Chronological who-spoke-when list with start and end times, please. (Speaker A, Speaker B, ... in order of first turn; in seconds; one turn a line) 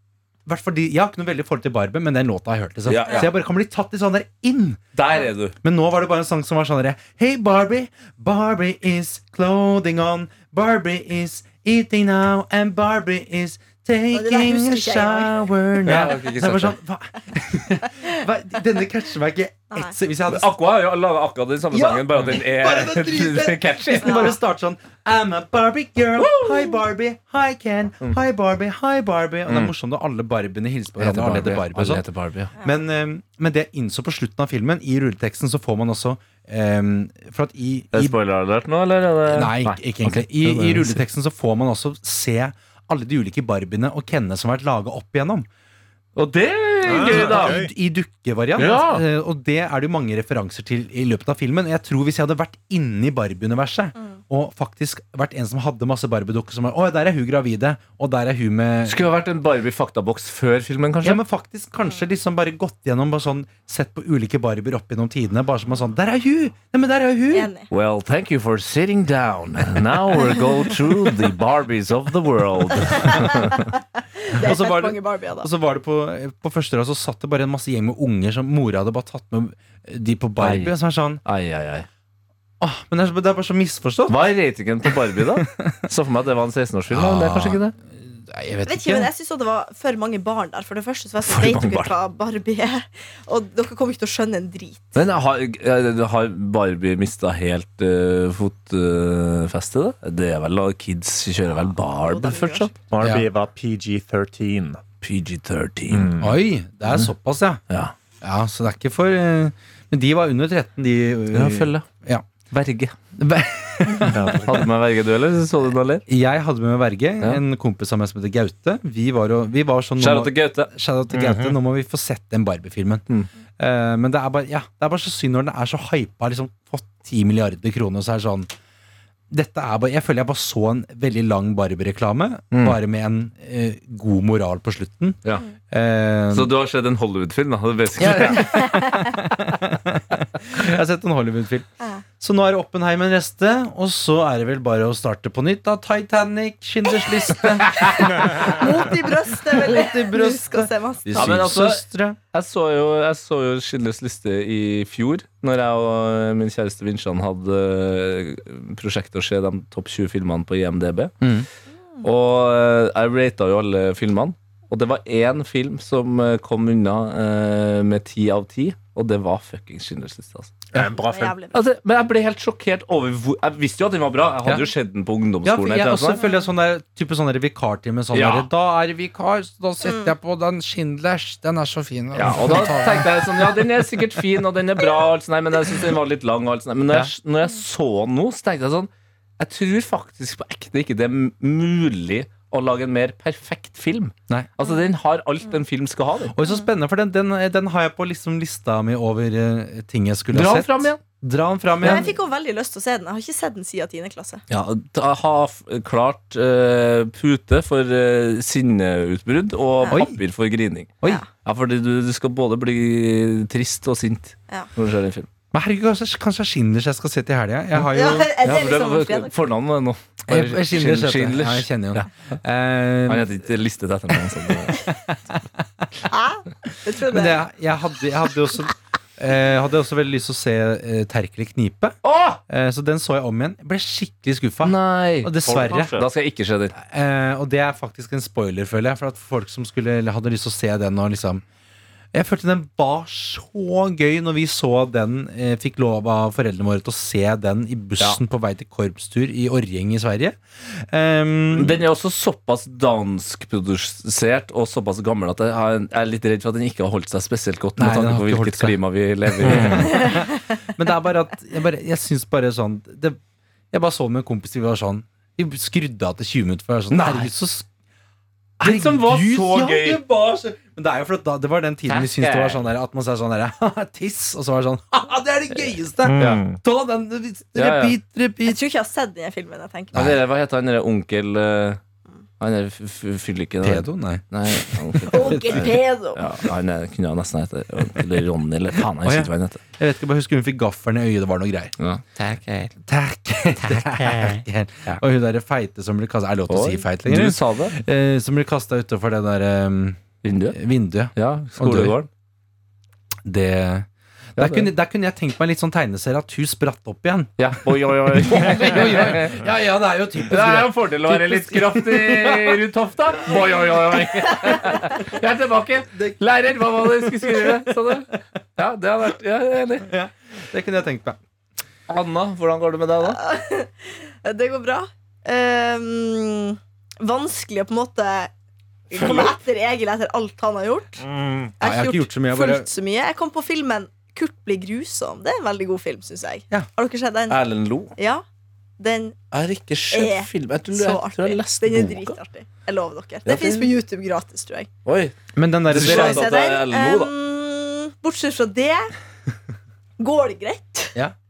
Speaker A: 0.5-4.8
Speaker B: 2.9-3.3
Speaker B: 5.0-5.5
Speaker A: 5.6-20.5
Speaker C: 14.1-15.5
Speaker B: 15.8-16.8
Speaker B: 20.3-24.3
Speaker A: 21.7-32.0
Speaker B: 29.5-29.7
Speaker B: 31.0-32.5
Speaker A: 32.6-38.2
Speaker B: 37.9-41.0
Speaker A: 39.3-45.5
Speaker B: 46.2-47.6
Speaker D: 46.8-47.7
Speaker A: 46.9-59.1
Speaker B: 48.6-49.0
Speaker D: 48.6-49.0
Speaker B: 58.9-61.2
Speaker A: 61.0-67.5
Speaker C: 67.3-67.7
Speaker B: 67.7-73.7
Speaker C: 74.2-75.5
Speaker A: 74.3-81.2
Speaker B: 80.4-80.7
Speaker B: 81.2-81.9
Speaker A: 82.6-84.2
Speaker B: 84.1-87.8
Speaker A: 84.9-85.5
Speaker A: 86.9-89.1
Speaker C: 88.7-95.0
Speaker B: 91.2-91.9
Speaker B: 95.0-102.7
Speaker C: 101.6-102.7
Speaker D: 102.9-104.8
Speaker A: 103.0-103.3
Speaker B: 105.0-106.1
Speaker D: 105.9-106.3
Speaker A: 106.2-107.6
Speaker A: 108.2-112.5
Speaker B: 111.3-111.8
Speaker B: 112.5-113.0
Speaker A: 113.2-114.7
Speaker D: 114.1-114.6
Speaker B: 114.4-116.0
Speaker A: 116.1-123.0
Speaker B: 120.0-120.7
Speaker D: 121.1-121.5
Speaker A: 123.6-128.5
Speaker A: 129.3-136.5
Speaker B: 132.5-132.8
Speaker B: 136.3-138.7
Speaker A: 138.0-152.2
Speaker C: 138.4-139.0
Speaker C: 147.6-151.4
Speaker B: 151.1-161.2
Speaker A: 161.2-161.5
Speaker B: 162.0-170.6
Speaker D: 170.7-171.3
Speaker C: 170.9-171.6
Speaker B: 171.5-176.2
Speaker A: 174.4-174.7
Speaker A: 175.4-184.2
Speaker C: 176.2-176.5
Speaker B: 178.1-178.5
Speaker C: 179.8-180.1
Speaker B: 182.1-196.3
Speaker A: 196.3-202.1
Speaker B: 200.3-201.0
Speaker C: 201.8-204.4
Speaker B: 204.5-215.3
Speaker A: 209.9-210.2
Speaker A: 215.5-218.3
Speaker C: 217.9-219.3
Speaker B: 218.4-222.1
Speaker A: 220.3-223.4
Speaker B: 223.1-224.8
Speaker A: 224.6-225.9
Speaker C: 226.1-227.4
Speaker A: 227.1-236.1
Speaker B: 232.0-232.4
Speaker B: 234.6-236.8
Speaker A: 236.8-241.4
Speaker A: 242.1-251.8
Speaker B: 251.6-260.1
Speaker A: 257.8-263.2
Speaker D: 259.4-259.9
Speaker A: 263.7-267.7
Speaker B: 266.9-267.3
Speaker B: 268.6-270.0
Speaker A: 268.6-278.6
Speaker B: 271.9-272.6
Speaker B: 275.6-276.4
Speaker D: 276.0-276.6
Speaker B: 277.6-277.9
Speaker C: 278.4-280.1
Speaker B: 279.9-281.8
Speaker B: 282.4-289.6
Speaker A: 283.6-285.8
Speaker C: 285.1-286.2
Speaker A: 289.0-291.7
Speaker B: 291.8-292.7
Speaker A: 292.9-302.0
Speaker B: 293.6-295.0
Speaker B: 296.5-297.8
Speaker B: 300.2-300.6
Speaker B: 301.1-302.1
Speaker A: 303.2-307.5
Speaker B: 304.4-304.7
Speaker B: 307.4-309.4
Speaker A: 308.1-312.6
Speaker B: 310.3-319.9
Speaker A: 317.1-317.9
Speaker A: 319.9-321.2
Speaker B: 321.9-323.2
Speaker C: 323.0-328.3
Speaker C: 328.9-331.0
Speaker D: 331.0-331.5
Speaker C: 331.6-337.4
Speaker A: 331.6-332.7
Speaker B: 337.3-337.9
Speaker C: 338.0-338.2
Speaker C: 338.8-339.2
Speaker B: 339.3-342.2
Speaker C: 339.9-344.7
Speaker B: 343.2-343.7
Speaker B: 344.9-345.2
Speaker A: 345.4-346.3
Speaker B: 345.7-347.1
Speaker C: 345.7-348.9
Speaker C: 350.0-351.0